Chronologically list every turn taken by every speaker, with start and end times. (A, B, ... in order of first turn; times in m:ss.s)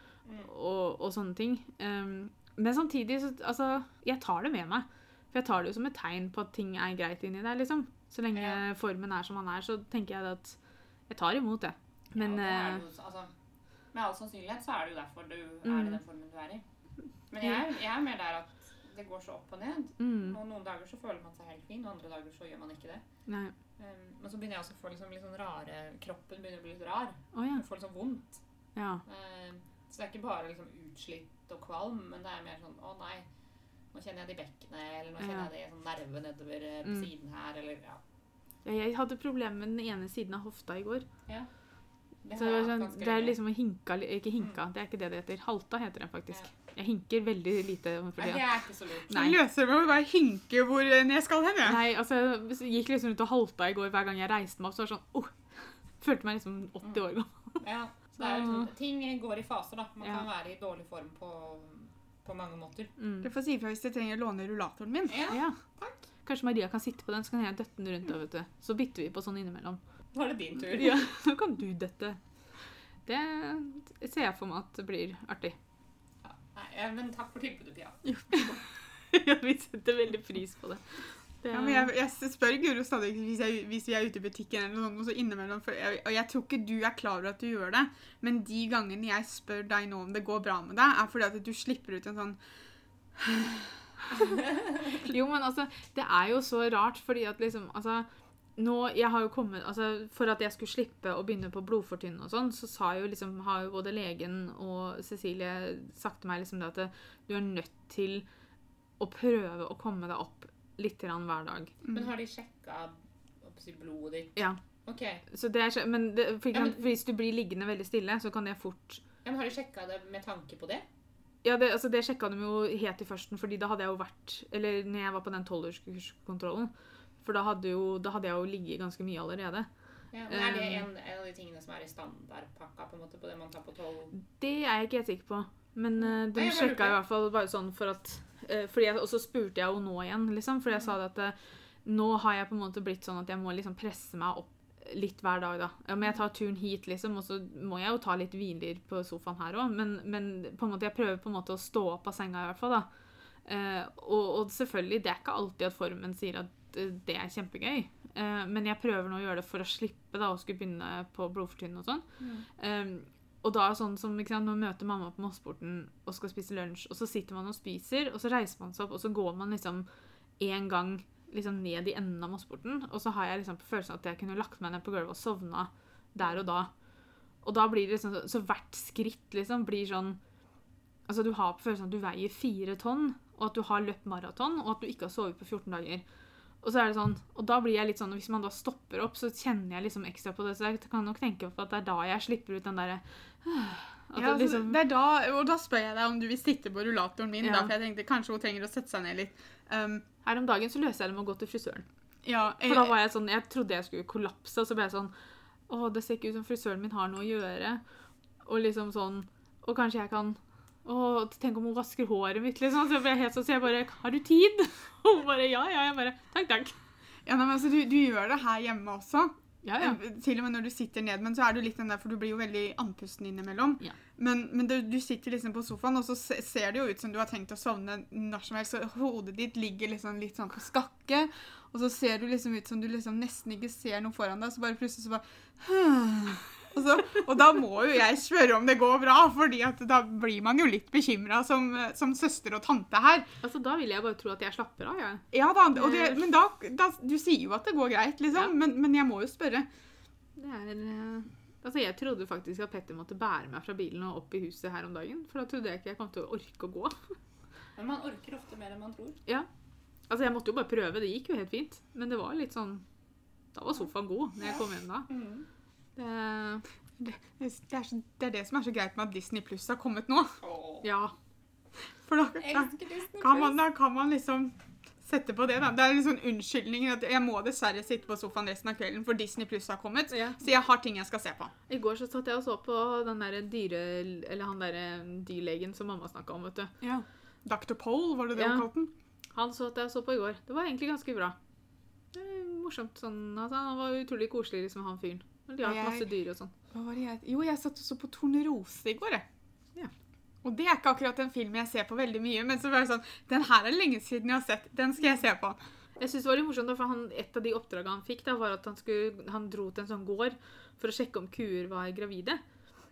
0:00.2-0:00.5 A
0:00.4-0:10.6 B
0:08.3-0:08.6 A
0:11.1-0:12.8 B
0:12.1-0:13.3 A
0:13.9-0:16.6 A
0:15.6-0:16.0 B
0:17.3-0:23.0 A
0:20.0-0:20.4 B
0:23.3-0:23.5 B
0:23.8-0:28.4 A
0:27.3-0:27.6 B
0:28.7-0:29.0 B
0:29.0-0:33.3 A
0:33.9-0:38.0 A
0:35.2-0:35.5 B
0:38.6-0:41.1 B
0:42.2-0:43.4 A
0:42.3-0:48.4 B
0:48.2-0:49.3 A
0:49.1-0:49.4 B
0:49.1-0:51.8 C
0:51.6-0:57.6 B
0:57.6-1:02.9 A
0:58.2-0:58.7 B
1:03.0-1:03.3 B
1:03.2-1:05.2 C
1:05.1-1:06.0 A
1:05.3-1:05.6 B
1:06.2-1:09.8 B
1:10.1-1:11.1 A
1:10.7-1:12.2 B
1:13.0-1:15.6 B
1:16.2-1:18.6 A
1:19.1-1:21.9 B
1:21.5-1:32.4 C
1:33.2-1:33.7 C
1:34.9-1:48.2 B
1:49.0-1:51.8 B
1:51.9-1:55.2 A
1:55.3-1:59.0 B
1:56.5-1:56.8 A
1:59.2-2:00.8 A
2:01.4-2:09.7 B
2:10.1-2:14.1 A
2:10.3-2:10.8 B
2:14.2-2:32.9 B
2:16.0-2:17.0 A
2:33.4-2:49.8 B
2:42.2-2:42.4 A
2:50.4-2:56.7 B
2:57.4-3:00.2 B
3:01.1-3:06.0 B
3:06.6-3:14.8 B
3:14.1-3:20.0 C
3:17.4-3:17.7 B
3:20.2-3:21.8 B
3:22.2-3:22.9 C
3:22.6-3:25.1 B
3:25.7-3:27.8 B
3:28.4-3:36.7 B
3:37.2-4:03.3 C
3:39.6-3:40.0 B
4:03.4-4:06.2 B
4:05.3-4:09.7 C
4:10.4-4:17.0 B
4:17.7-4:19.2 A
4:20.1-4:22.8 B
4:23.5-4:25.1 B
4:24.4-4:25.4 A
4:26.0-4:27.1 B
4:27.0-4:30.4 C
4:30.4-4:30.9 A
4:30.8-4:31.1 B
4:32.0-4:41.5 C
4:32.4-4:33.6 A
4:40.1-4:40.4 B
4:41.7-4:46.7 B
4:46.8-4:48.9 C
4:48.3-4:48.7 B
4:49.3-4:51.4 B
4:52.1-4:56.5 B
4:55.6-4:56.1 C
4:56.7-4:59.2 C
5:00.4-5:05.6 C
5:06.0-5:12.4 B